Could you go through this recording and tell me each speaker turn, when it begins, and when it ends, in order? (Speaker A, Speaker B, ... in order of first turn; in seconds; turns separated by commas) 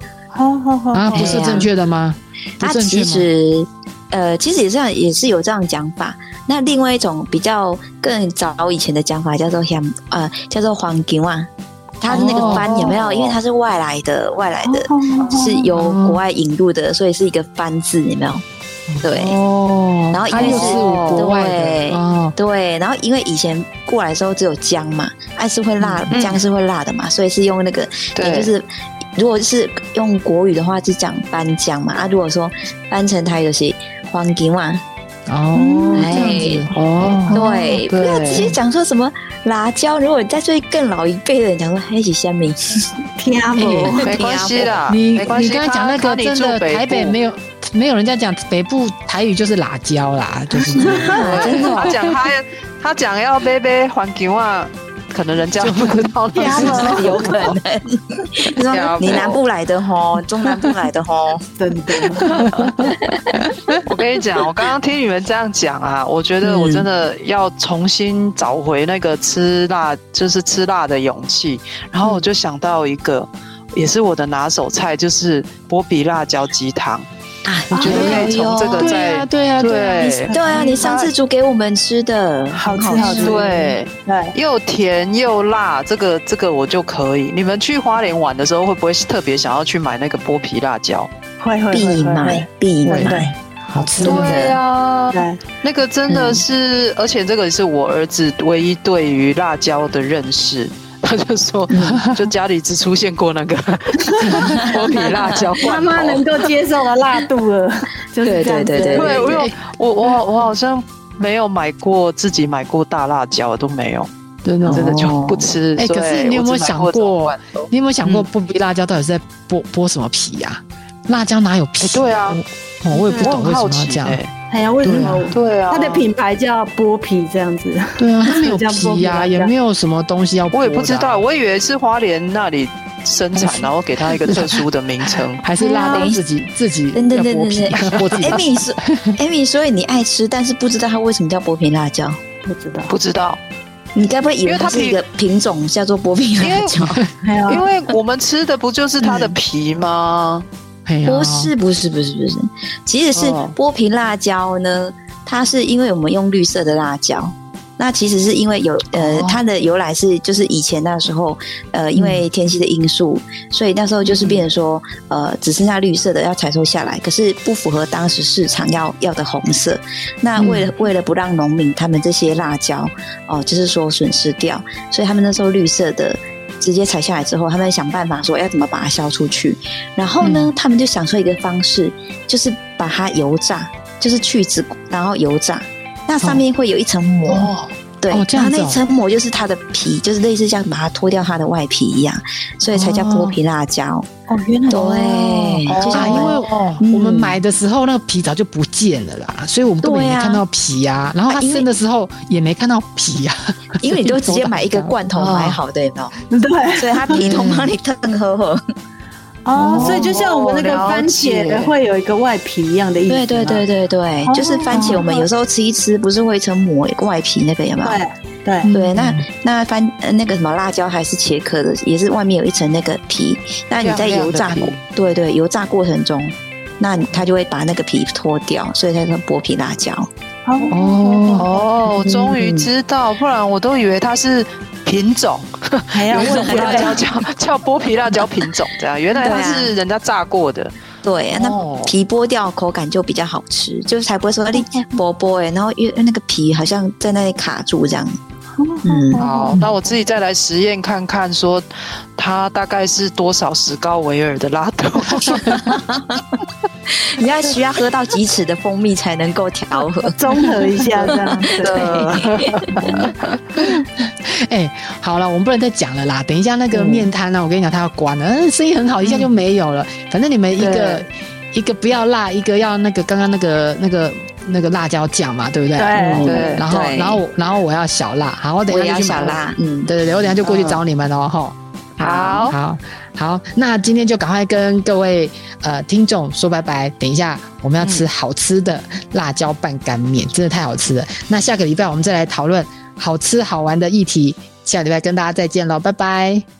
Speaker A: 0.3-1.6, Speaker B: 0.9-3.3, Speaker C: 1.1-1.7, Speaker C: 2.6-11.5, Speaker C: 12.0-18.4, Speaker B: 12.1-12.9, Speaker D: 12.1-13.4, Speaker A: 14.7-15.6, Speaker B: 15.7-16.2, Speaker B: 18.9-22.4, Speaker C: 19.0-19.4, Speaker C: 20.1-34.8, Speaker D: 20.3-21.3, Speaker B: 25.8-26.1, Speaker D: 26.1-26.4, Speaker D: 28.1-28.5, Speaker B: 35.3-37.4, Speaker A: 35.5-36.4, Speaker C: 35.9-36.7, Speaker D: 36.7-38.5, Speaker C: 37.3-42.6, Speaker A: 43.2-44.8, Speaker B: 43.5-44.1, Speaker D: 44.0-47.2, Speaker B: 44.9-52.1, Speaker C: 50.6-51.9, Speaker A: 50.8-51.6, Speaker D: 51.1-57.1, Speaker B: 55.6-57.4, Speaker A: 56.4-57.2, Speaker C: 56.4-61.4, Speaker D: 58.7-59.4, Speaker A: 61.6-62.4, Speaker B: 62.3-62.9, Speaker C: 62.9-63.5, Speaker D: 63.8-77.0, Speaker C: 66.4-66.9, Speaker C: 77.5-78.9, Speaker B: 77.7-80.4, Speaker D: 77.7-81.1, Speaker A: 80.3-80.8, Speaker C: 80.3-83.5, Speaker A: 82.5-84.3, Speaker D: 83.0-91.1, Speaker A: 91.4-94.5, Speaker C: 91.7-93.2, Speaker B: 92.8-94.4, Speaker C: 94.0-94.6, Speaker D: 94.0-106.4, Speaker A: 95.1-95.4, Speaker C: 96.1-96.4, Speaker C: 101.7-102.0, Speaker B: 102.0-102.2, Speaker A: 104.1-104.6, Speaker B: 104.3-104.6, Speaker C: 104.7-105.4, Speaker A: 105.6-109.4, Speaker C: 108.2-109.2, Speaker D: 108.8-114.1, Speaker B: 109.2-109.5, Speaker B: 114.4-115.0, Speaker C: 114.6-115.5, Speaker D: 114.6-118.2, Speaker B: 115.8-124.2, Speaker D: 121.8-122.4, Speaker A: 122.9-123.3, Speaker D: 123.1-124.3, Speaker A: 124.5-129.5, Speaker B: 124.8-125.3, Speaker D: 125.0-126.0, Speaker B: 128.0-131.2, Speaker D: 130.5-135.4, Speaker B: 133.3-134.6, Speaker B: 135.4-138.4, Speaker A: 135.6-136.1, Speaker C: 135.6-136.2, Speaker C: 136.9-142.2, Speaker D: 137.7-138.4, Speaker A: 142.4-142.9, Speaker D: 142.9-143.4, Speaker C: 143.9-147.0, Speaker D: 144.4-145.0, Speaker D: 146.4-146.8, Speaker A: 147.2-147.6, Speaker D: 147.5-150.4, Speaker B: 150.8-151.5, Speaker C: 151.0-187.5, Speaker D: 153.1-153.5, Speaker D: 159.0-159.4, Speaker B: 161.9-162.2, Speaker B: 170.4-170.7, Speaker B: 180.2-180.5, Speaker D: 187.3-187.7, Speaker C: 188.0-194.1, Speaker B: 188.1-188.8, Speaker B: 192.7-193.3, Speaker A: 194.3-195.5, Speaker C: 194.7-197.4, Speaker B: 195.6-204.9, Speaker D: 195.7-196.8, Speaker C: 199.8-200.4, Speaker C: 201.3-201.7, Speaker C: 203.8-206.1, Speaker D: 205.1-205.6, Speaker A: 206.3-207.2, Speaker C: 206.8-208.6, Speaker B: 207.3-207.6, Speaker A: 209.4-213.6, Speaker B: 209.6-210.1, Speaker D: 209.7-211.7, Speaker C: 213.1-218.0, Speaker A: 214.3-215.2, Speaker A: 217.8-218.7, Speaker B: 218.7-219.2, Speaker C: 218.7-230.1, Speaker D: 223.8-224.8, Speaker A: 230.4-231.6, Speaker B: 230.7-231.4, Speaker D: 231.4-240.7, Speaker C: 232.0-232.7, Speaker A: 235.9-237.0, Speaker C: 236.2-236.9, Speaker C: 239.2-239.7, Speaker C: 241.0-248.2, Speaker D: 241.3-241.9, Speaker A: 248.6-249.9, Speaker C: 248.8-249.2, Speaker D: 249.2-251.6, Speaker B: 249.2-249.7, Speaker D: 252.2-255.6, Speaker C: 255.2-260.2, Speaker A: 260.1-262.2, Speaker C: 261.0-263.1, Speaker D: 261.6-263.3, Speaker A: 262.8-263.1, Speaker B: 263.6-296.4, Speaker C: 266.7-267.1, Speaker D: 270.6-270.9, Speaker A: 275.8-276.6, Speaker C: 276.0-277.2, Speaker D: 276.1-276.6, Speaker C: 278.7-279.9, Speaker D: 280.4-280.8, Speaker D: 282.0-282.6, Speaker C: 282.0-282.5